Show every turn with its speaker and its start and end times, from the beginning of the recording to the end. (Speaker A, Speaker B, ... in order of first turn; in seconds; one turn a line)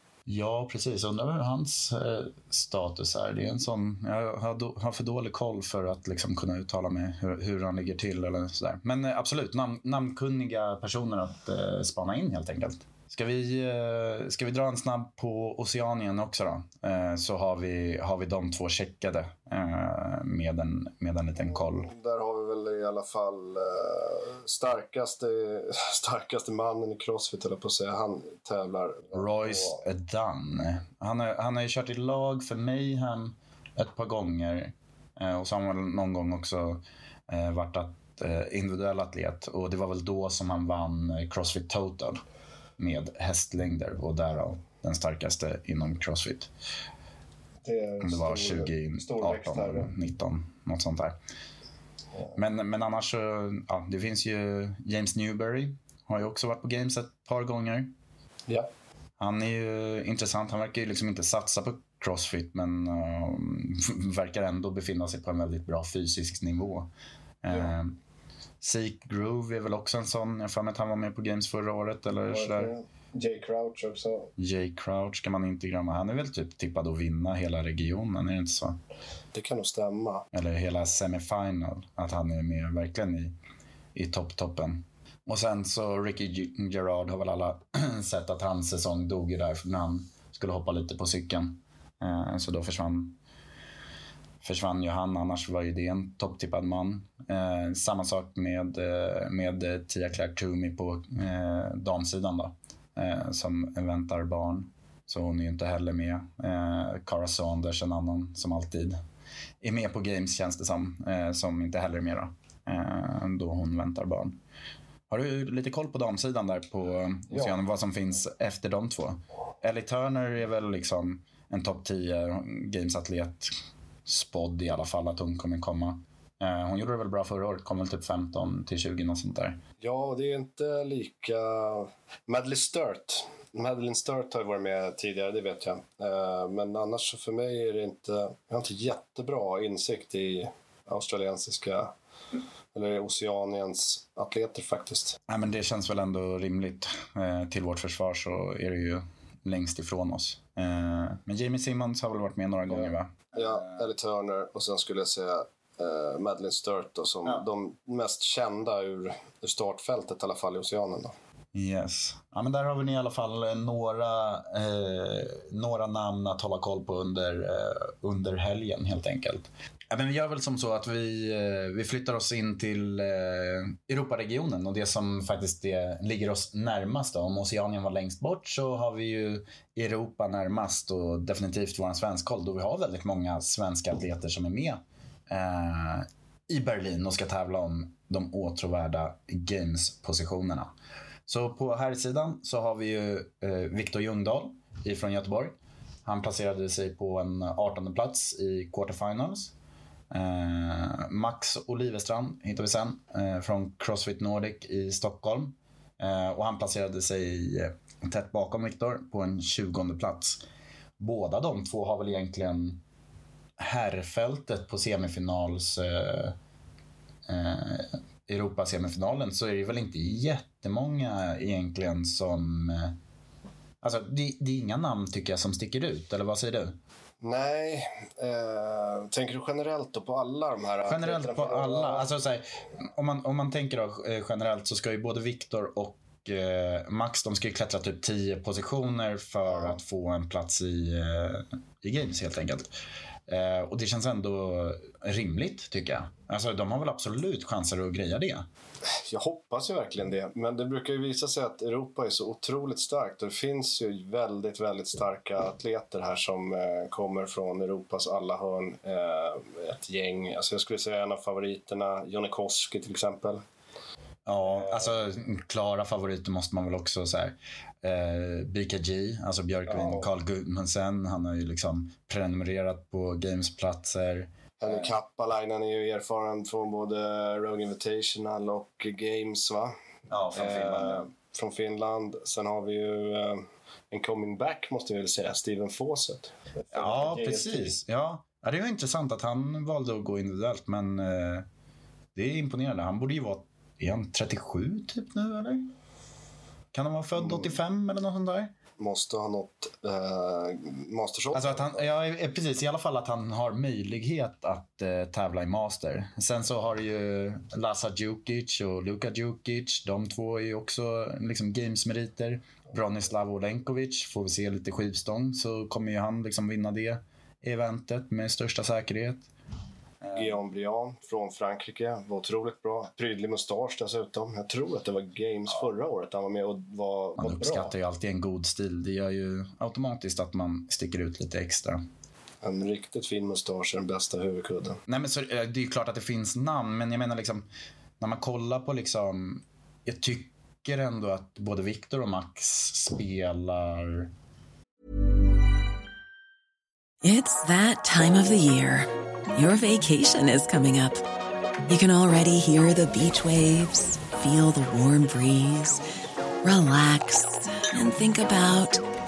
Speaker A: 0.2-21.9
Speaker B: 21.9-29.8
Speaker A: 29.1-42.2
Speaker A: 42.8-46.5
Speaker B: 47.6-49.9
Speaker A: 48.0-51.2
Speaker A: 52.3-57.9
Speaker A: 59.2-66.9
Speaker A: 67.4-68.0
Speaker A: 68.6-72.7
Speaker B: 72.2-74.3
Speaker A: 74.4-78.8
Speaker B: 79.3-80.3
Speaker A: 80.3-83.3
Speaker A: 83.9-93.2
Speaker A: 94.4-109.0
Speaker A: 109.6-114.4
Speaker A: 115.1-123.5
Speaker B: 117.3-117.5
Speaker A: 124.0-129.6
Speaker B: 129.8-141.9
Speaker B: 142.7-145.2
Speaker A: 145.3-153.8
Speaker B: 152.7-161.1
Speaker A: 161.5-190.7
Speaker A: 191.3-199.5
Speaker A: 200.1-210.4
Speaker A: 211.0-212.8
Speaker A: 213.6-216.3
Speaker A: 217.3-223.0
Speaker A: 223.8-226.8
Speaker B: 227.2-232.1
Speaker A: 230.8-242.7
Speaker B: 239.4-239.8
Speaker A: 243.3-248.5
Speaker B: 248.9-263.4
Speaker A: 264.2-274.9
Speaker B: 264.4-264.9
Speaker B: 269.7-270.1
Speaker B: 274.6-279.7
Speaker A: 280.1-281.1
Speaker B: 280.3-287.8
Speaker A: 286.7-291.4
Speaker A: 292.1-295.7
Speaker A: 296.7-298.5
Speaker B: 297.1-297.5
Speaker B: 298.8-301.8
Speaker A: 301.3-319.3
Speaker A: 320.0-320.4
Speaker B: 320.1-327.7
Speaker A: 327.2-331.9
Speaker B: 332.4-334.8
Speaker A: 334.9-337.5
Speaker A: 338.0-344.1
Speaker C: 347.0-351.0
Speaker C: 351.7-355.8
Speaker C: 356.4-358.8